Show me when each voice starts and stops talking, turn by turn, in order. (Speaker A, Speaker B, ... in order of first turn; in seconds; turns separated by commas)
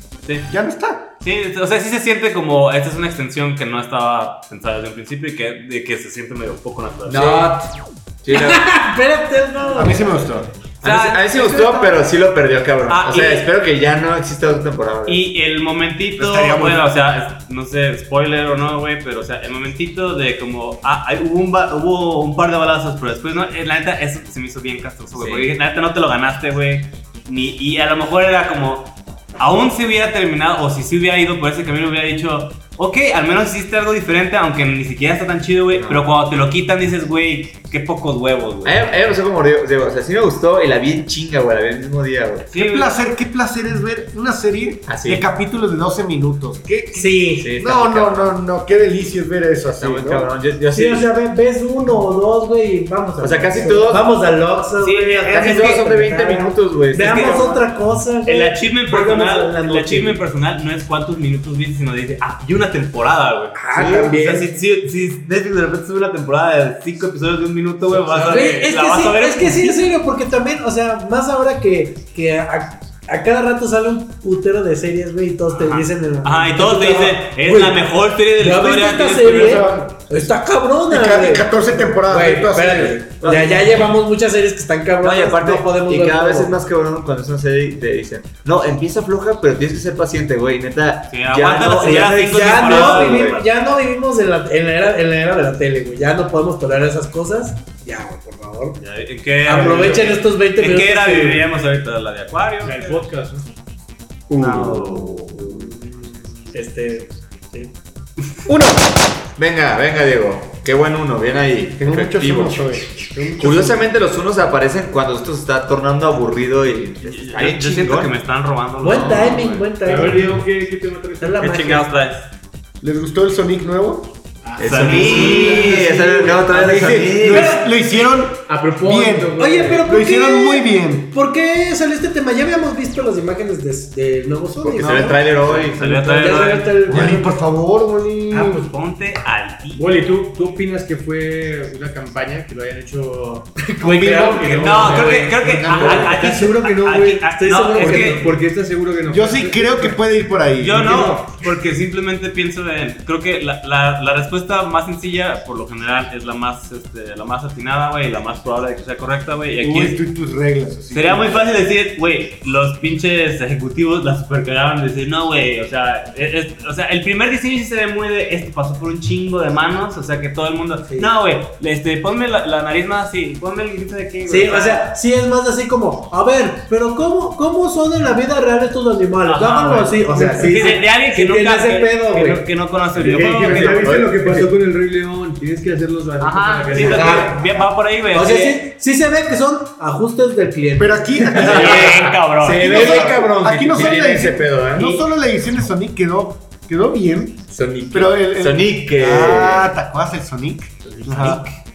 Speaker A: 0.2-0.5, Speaker B: 0.5-1.1, Speaker A: 1.2-7.5, Speaker C: 7.0-8.7, Speaker D: 8.3-10.3, Speaker B: 9.7-10.5, Speaker C: 10.8-15.2, Speaker A: 10.8-12.0, Speaker A: 12.9-13.5, Speaker A: 15.1-38.9, Speaker B: 16.2-16.9, Speaker C: 25.1-25.5, Speaker C: 35.7-36.0, Speaker C: 38.6-42.5, Speaker A: 42.5-42.9, Speaker B: 42.5-50.3, Speaker C: 44.9-45.2, Speaker D: 46.9-47.5, Speaker C: 47.4-48.3, Speaker C: 49.8-51.1, Speaker D: 50.7-60.2, Speaker C: 53.2-54.1, Speaker A: 54.8-55.8, Speaker C: 55.3-57.6, Speaker A: 57.0-57.3, Speaker A: 58.2-69.8, Speaker D: 63.5-64.5, Speaker C: 63.7-64.2, Speaker D: 68.1-77.8, Speaker A: 75.5-79.7, Speaker D: 78.3-86.5, Speaker B: 79.2-80.2, Speaker B: 80.9-83.0, Speaker C: 82.8-84.0, Speaker C: 85.0-93.4, Speaker A: 91.1-93.3, Speaker D: 91.9-98.8, Speaker A: 98.8-103.0, Speaker D: 99.4-101.4, Speaker E: 102.6-103.5, Speaker B: 104.3-105.5, Speaker A: 104.4-105.6, Speaker D: 106.5-107.7, Speaker B: 108.5-108.9, Speaker C: 109.4-118.2, Speaker B: 111.8-113.9, Speaker A: 117.0-119.6, Speaker D: 118.8-120.4, Speaker C: 118.8-119.4, Speaker E: 119.8-121.5, Speaker D: 121.2-121.9, Speaker A: 121.4-122.3, Speaker B: 122.8-124.2, Speaker E: 124.5-127.1, Speaker C: 124.6-127.6, Speaker A: 124.6-125.8, Speaker D: 124.8-126.3, Speaker B: 126.6-131.1, Speaker D: 127.2-127.6, Speaker E: 128.4-129.8, Speaker D: 129.4-137.3, Speaker C: 134.6-135.9, Speaker A: 135.5-136.9, Speaker B: 136.9-138.7, Speaker D: 138.3-138.6, Speaker A: 138.3-140.0, Speaker E: 139.7-147.2, Speaker D: 143.6-144.9, Speaker B: 143.8-144.4, Speaker A: 144.4-148.2, Speaker B: 145.6-146.1, Speaker D: 145.7-148.3, Speaker E: 147.7-150.0, Speaker B: 149.1-151.2, Speaker A: 150.6-160.0, Speaker B: 159.6-161.5, Speaker A: 160.9-174.9, Speaker D: 174.2-182.4, Speaker A: 179.2-183.9, Speaker E: 182.9-187.4, Speaker C: 183.4-184.1, Speaker A: 186.2-188.6, Speaker C: 186.7-187.6, Speaker D: 186.8-187.4, Speaker D: 188.1-193.9, Speaker B: 190.8-201.4, Speaker A: 191.4-193.1, Speaker C: 191.4-195.1, Speaker C: 197.5-199.7, Speaker A: 200.9-201.6